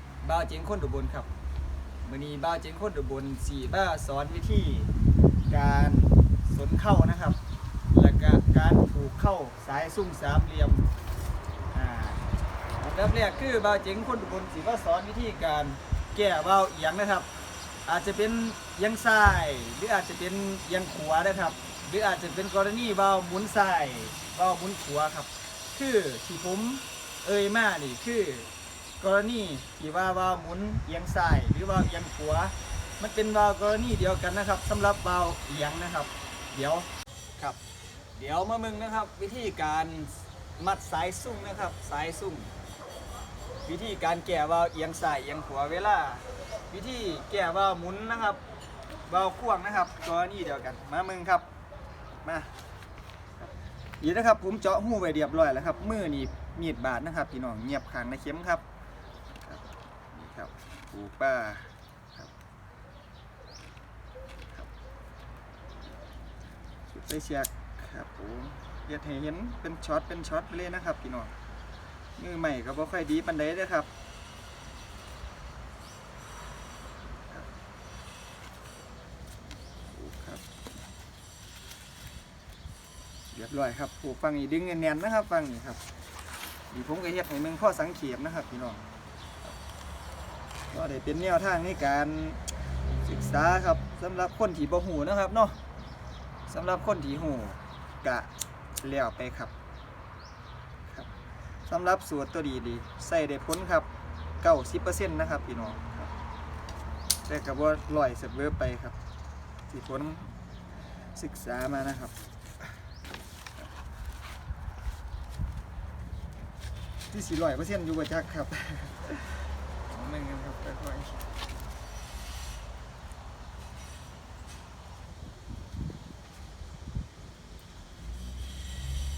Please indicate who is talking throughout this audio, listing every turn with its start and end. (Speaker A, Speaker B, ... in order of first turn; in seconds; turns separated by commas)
Speaker A: 0.2-1.3, Speaker A: 2.0-4.9, Speaker A: 5.5-7.4, Speaker A: 7.9-10.9, Speaker A: 11.7-12.2, Speaker A: 12.8-17.3, Speaker A: 17.9-37.6, Speaker A: 38.2-42.5, Speaker A: 43.6-48.4, Speaker A: 49.1-51.5, Speaker A: 52.2-52.5, Speaker A: 53.4-58.6, Speaker A: 59.4-62.3, Speaker A: 66.9-71.3, Speaker A: 72.2-73.9, Speaker A: 79.9-80.5, Speaker A: 83.3-85.8, Speaker A: 86.7-88.8, Speaker A: 90.7-95.6, Speaker A: 96.5-99.5, Speaker A: 100.9-101.1, Speaker A: 101.7-103.9, Speaker A: 104.4-106.1, Speaker A: 107.3-109.0, Speaker A: 109.7-110.3, Speaker A: 111.2-112.2, Speaker A: 117.1-121.3